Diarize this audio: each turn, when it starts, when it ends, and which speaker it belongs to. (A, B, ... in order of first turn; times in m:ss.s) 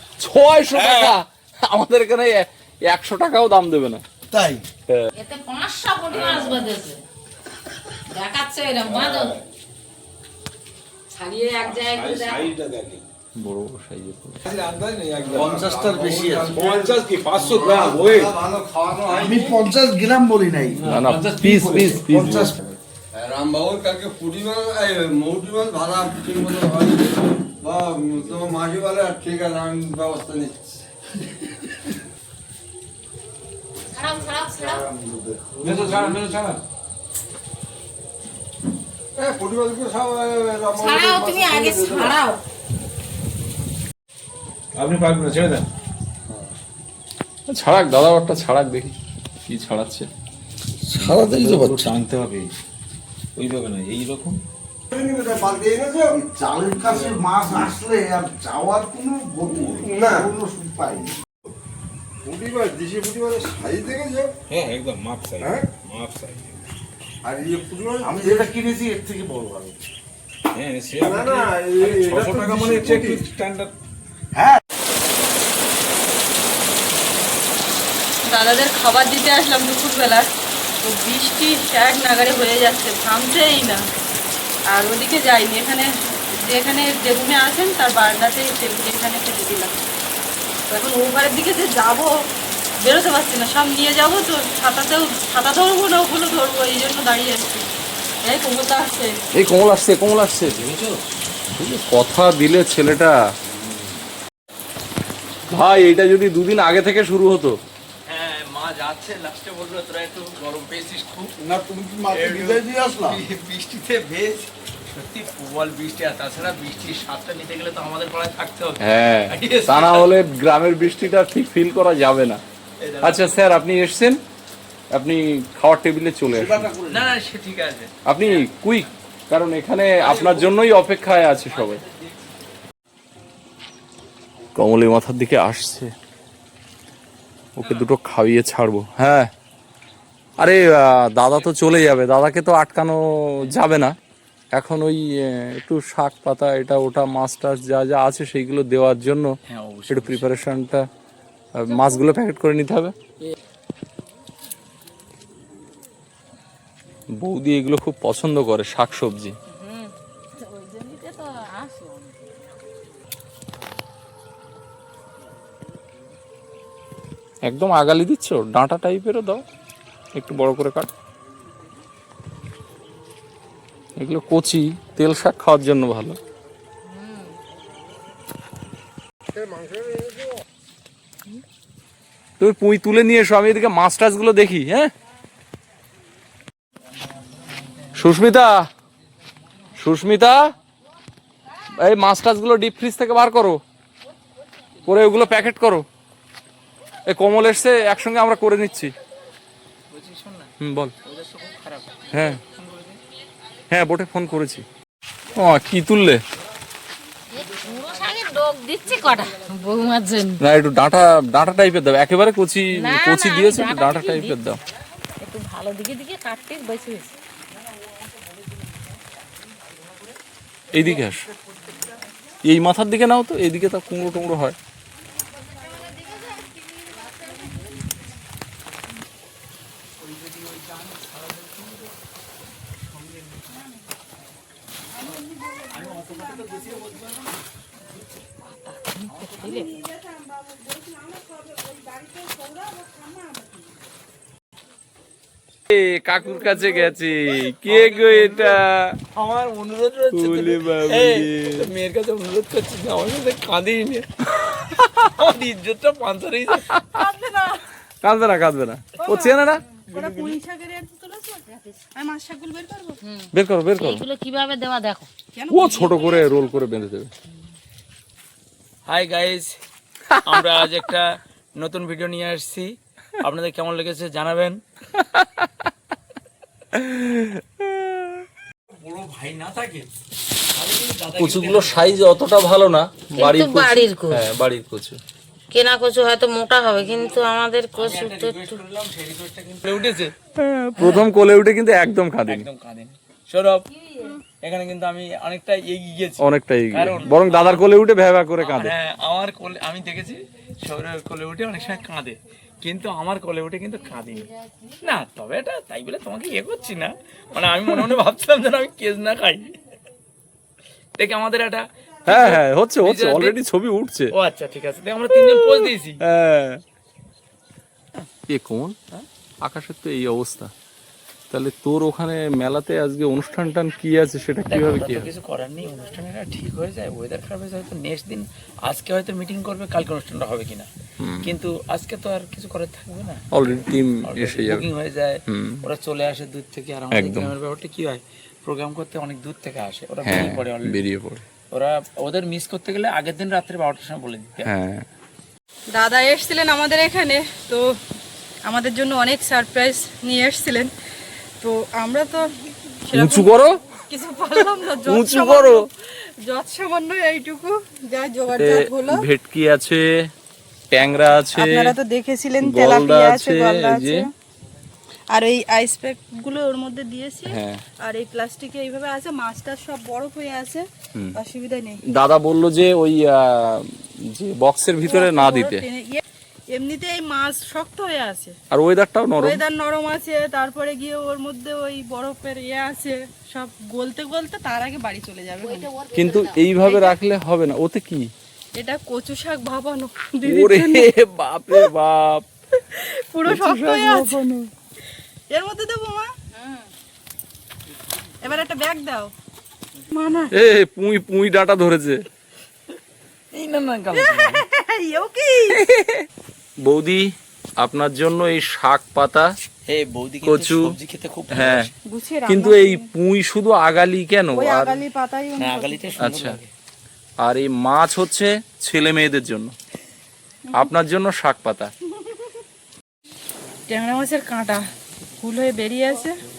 0:00.2-0:04.0 A
0:00.7-0:01.2 B
0:04.3-0:04.7 C
0:05.2-0:07.0 D
0:06.1-0:06.6 B
0:08.1-0:09.4 D
0:08.8-0:09.4 B
0:11.1-0:12.5 D
0:11.6-0:13.1 B
0:13.4-0:14.4 A
0:14.4-0:18.4 B
0:15.2-0:19.5 E
0:15.3-0:16.6 C
0:19.0-0:19.5 B
0:19.1-0:20.8 C
0:20.8-0:22.5 B
0:20.8-0:22.5 A
0:23.1-0:30.8 E
0:33.9-0:34.8 D
0:34.4-0:36.4 E
0:35.6-0:36.6 B
0:39.2-0:42.2 E
0:40.7-0:42.4 D
0:44.8-0:45.6 B
0:47.5-0:48.9 A
0:49.5-0:50.1 A
0:50.9-0:52.0 C
0:51.0-0:52.5 B
0:53.4-0:54.4 B
0:54.9-0:56.1 E
0:56.1-1:01.2 C
0:57.1-0:57.7 E
0:59.5-1:00.3 E
1:02.2-1:04.3 E
1:04.5-1:06.6 B
1:05.4-1:05.7 E
1:07.2-1:08.5 E
1:08.0-1:09.7 C
1:10.6-1:13.7 B
1:11.0-1:13.2 E
1:14.3-1:14.6 C
1:18.3-1:20.3 F
1:20.8-1:23.8 F
1:24.7-1:29.7 F
1:30.7-1:32.1 F
1:32.8-1:37.7 F
1:38.2-1:39.2 F
1:39.3-1:40.5 A
1:40.5-1:41.0 B
1:41.6-1:43.2 A
1:45.5-1:47.6 A
1:48.1-1:51.3 G
1:51.5-1:53.2 C
1:52.1-2:00.1 G
1:58.8-2:02.4 A
2:02.8-2:03.4 G
2:03.0-2:04.2 A
2:04.9-2:06.7 A
2:06.3-2:07.1 C
2:06.9-2:08.5 G
2:08.0-2:11.8 A
2:10.0-2:10.7 G
2:11.5-2:12.5 G
2:14.5-2:15.9 A
2:17.6-2:19.3 A
2:17.6-2:17.9 G
2:20.4-2:24.0 A
2:21.2-2:21.7 G
2:24.5-2:29.4 A
2:29.5-2:30.3 G
2:29.9-2:30.9 A
2:31.5-2:32.9 A
2:31.7-2:32.2 D
2:37.2-2:39.4 A
2:39.5-2:42.4 D
2:47.4-2:49.4 A
2:50.1-2:50.9 A
2:54.0-2:56.2 A
2:56.8-2:57.4 D
2:59.4-3:00.1 E
3:02.4-3:04.9 A
3:07.9-3:08.7 A
3:09.8-3:10.5 A
3:11.8-3:13.6 A
3:14.8-3:15.8 A
3:17.1-3:18.9 A
3:19.9-3:20.5 G
3:20.6-3:20.9 A
3:21.0-3:23.0 G
3:22.1-3:22.4 A
3:23.7-3:24.6 A
3:25.4-3:26.2 A
3:27.3-3:30.4 D
3:30.4-3:34.6 A
3:32.7-3:34.4 D
3:35.2-3:37.2 D
3:40.7-3:41.3 A
3:40.8-3:41.6 G
3:42.4-3:44.6 A
3:45.8-3:46.5 D
3:50.0-3:51.9 G
3:52.8-3:53.5 G
3:55.0-3:56.8 F
3:55.7-3:57.4 G
3:58.0-3:59.6 G
3:58.9-3:59.8 D
3:59.4-4:03.6 F
4:05.7-4:09.0 A
4:06.6-4:06.9 F
4:07.6-4:14.3 G
4:10.1-4:11.7 A
4:14.4-4:15.1 A
4:15.1-4:16.7 G
4:16.9-4:17.6 F
4:18.0-4:19.6 A
4:19.0-4:23.0 F
4:19.9-4:20.4 G
4:23.0-4:25.1 D
4:23.3-4:24.0 A
4:25.3-4:26.3 F
4:25.5-4:27.1 A
4:28.9-4:29.5 G
4:30.1-4:30.4 A
4:30.2-4:34.6 G
4:35.0-4:35.3 A
4:36.7-4:38.2 A
4:38.7-4:39.9 G
4:40.6-4:41.8 G
4:41.2-4:45.0 A
4:43.1-4:44.3 D
4:45.5-4:48.6 D
4:47.8-4:50.1 G
4:50.3-4:52.4 A
4:52.2-4:53.7 G
4:53.7-4:54.2 D
4:54.4-4:57.8 G
4:56.2-4:58.7 A
4:58.4-5:04.3 G
5:04.0-5:04.7 D
5:04.8-5:09.6 G
5:11.0-5:13.4 G
5:12.0-5:14.1 A
5:14.1-5:16.0 G
5:16.0-5:16.6 A
5:18.3-5:18.8 A
5:19.4-5:20.5 A
5:21.3-5:25.1 A
5:24.5-5:30.7 G
5:31.0-5:31.3 A
5:31.2-5:33.2 G
5:33.3-5:34.6 A
5:34.0-5:40.8 G
5:35.3-5:35.6 A
5:36.9-5:37.3 A
5:40.0-5:41.2 A
5:41.5-5:44.5 G
5:44.4-5:44.8 A
5:45.7-5:47.6 F
5:48.5-5:50.7 F
5:51.4-5:52.3 F
5:52.8-5:55.7 F
5:52.9-5:53.6 A
5:54.8-5:55.6 A
5:56.2-5:59.0 F
5:58.3-6:00.1 A
6:00.7-6:01.7 A
6:01.3-6:04.1 F
6:02.4-6:04.1 A
6:05.1-6:11.8 F
6:07.3-6:07.6 A
6:11.9-6:15.6 A
6:14.8-6:18.3 F
6:18.5-6:19.4 A
6:19.2-6:25.7 F
6:25.4-6:26.4 D
6:25.9-6:28.1 A
6:26.6-6:27.0 F
6:28.6-6:30.9 F
6:30.2-6:32.3 A
6:32.5-6:34.2 F
6:33.2-6:34.5 A
6:35.3-6:36.1 F
6:36.3-6:36.7 D
6:38.2-6:39.1 F
6:39.9-6:40.4 F
6:40.3-6:42.0 A
6:43.3-6:44.4 G
6:44.0-6:45.6 F
6:45.5-6:46.1 A
6:46.6-6:49.3 A
6:49.7-6:51.7 G
6:50.2-6:50.7 A
6:51.3-6:51.7 A
6:51.8-6:52.9 F
6:52.3-6:54.8 A
6:54.3-6:55.9 F
6:55.4-6:56.5 G
6:56.0-6:56.4 A
6:57.2-6:59.5 A
7:00.6-7:01.7 A
7:03.7-7:04.6 F
7:05.2-7:06.2 F